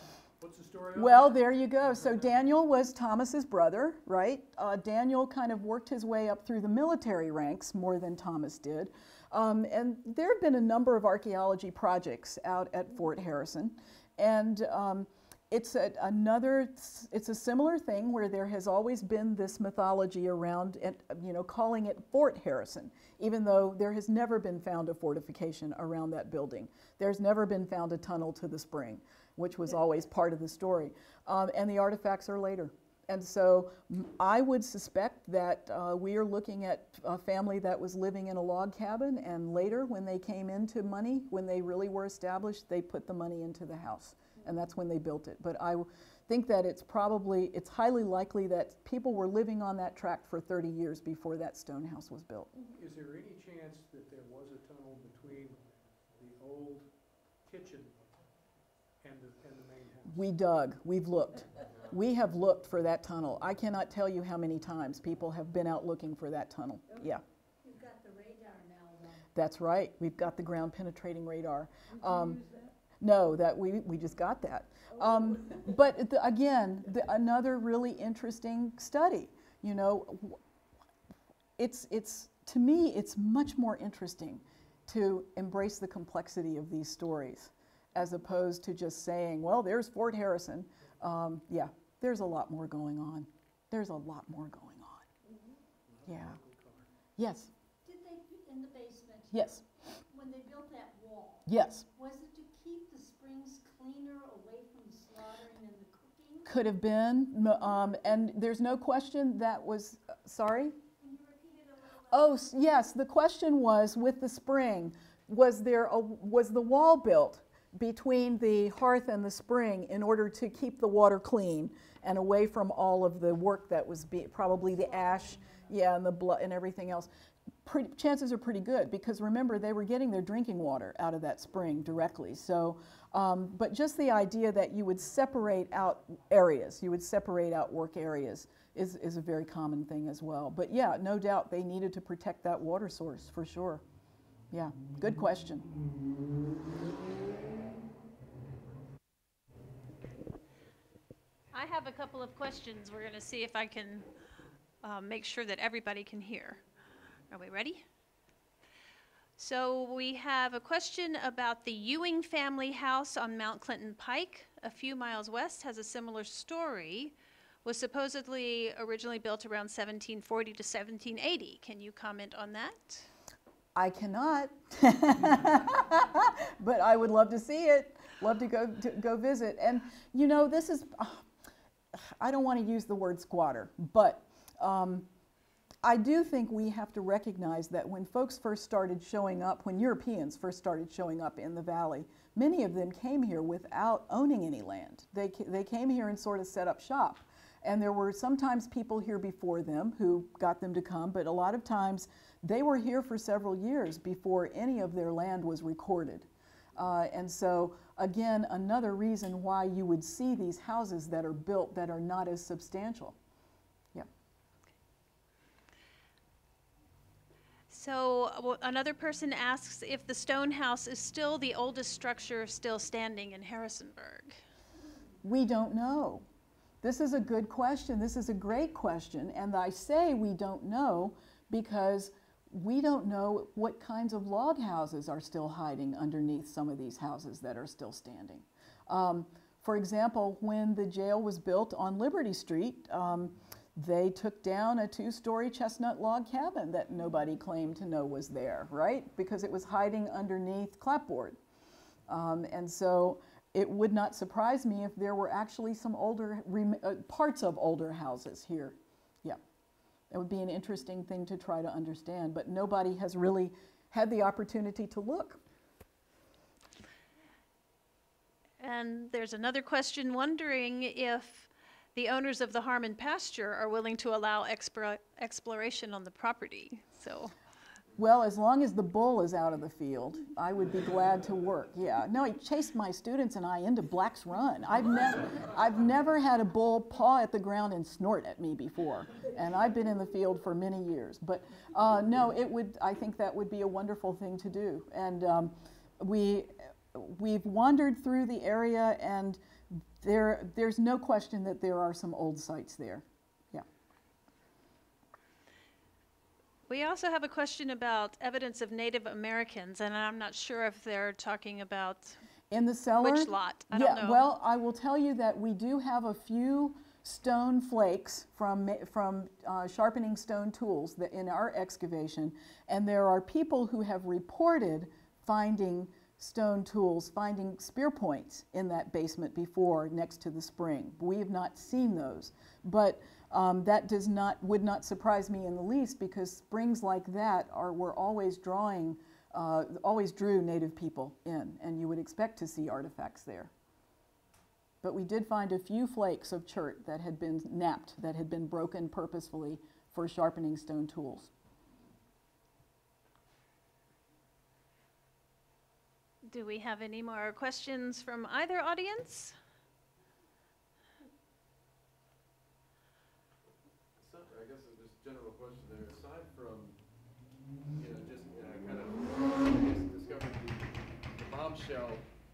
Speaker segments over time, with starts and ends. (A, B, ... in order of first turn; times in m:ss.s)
0:00.4-0:02.4 A
0:00.9-0:52.5 B
0:52.7-0:56.9 A
0:57.4-0:58.2 A
0:59.0-1:00.2 A
1:00.0-1:07.2 B
1:07.6-1:09.3 C
1:09.3-1:12.4 B
1:12.0-1:12.7 C
1:13.0-1:20.4 B
1:21.6-1:35.1 B
1:35.9-1:36.9 A
1:36.0-1:36.4 B
1:37.2-1:37.5 B
1:37.8-1:46.5 C
1:39.3-1:39.6 B
1:41.4-1:41.8 B
1:46.4-1:50.8 B
1:51.0-1:52.4 C
1:52.1-2:07.1 B
2:04.8-2:05.7 C
2:07.6-2:23.8 B
2:24.5-2:25.7 B
2:31.5-2:34.1 D
2:34.8-2:36.6 D
2:37.3-2:37.8 D
2:39.4-2:53.1 D
2:53.7-3:01.2 B
3:01.9-3:05.1 B
3:05.8-3:33.2 B
3:37.7-3:44.4 D
3:45.2-3:46.2 B
3:46.8-4:11.4 B
4:12.1-4:19.4 B
4:20.1-4:25.4 B
4:28.6-4:37.3 D
4:38.0-5:03.6 B
5:06.7-5:12.2 D
5:12.5-5:43.5 B
5:13.0-5:14.2 D
5:44.8-5:51.3 B
5:56.3-5:59.4 D
6:04.0-6:06.8 E
6:07.8-6:12.0 E